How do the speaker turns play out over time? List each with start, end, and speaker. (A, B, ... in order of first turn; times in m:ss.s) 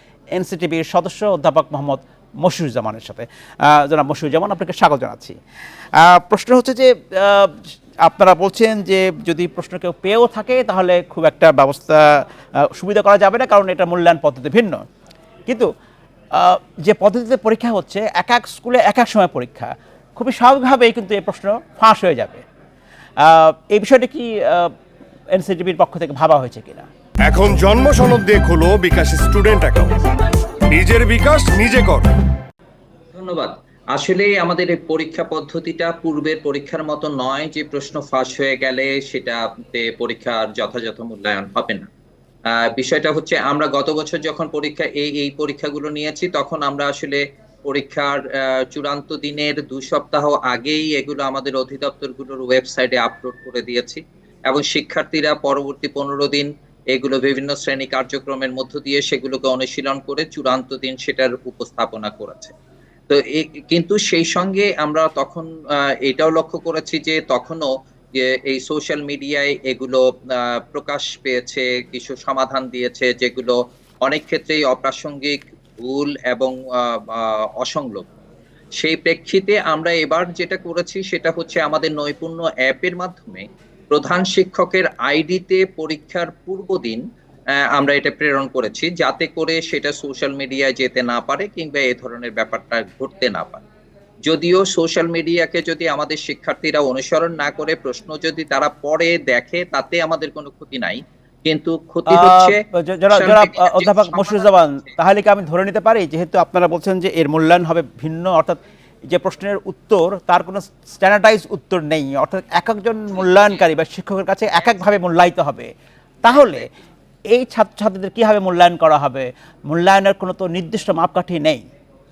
0:00.4-0:05.4 A
0:06.0-0:14.8 A
0:16.3-0:22.4 A
0:23.2-0:24.7 A
0:25.3-0:26.9 A
0:27.2-0:30.1 B
0:30.6-0:32.1 B
0:33.1-0:41.9 C
0:42.5-1:02.5 C
1:03.1-1:18.1 C
1:18.8-1:27.0 C
1:27.5-1:33.6 C
1:34.2-1:42.6 C
1:42.1-1:55.7 A
1:43.1-1:44.9 C
1:53.1-1:53.6 C
1:56.2-1:56.7 A
1:56.3-1:56.7 C
1:57.3-2:01.6 A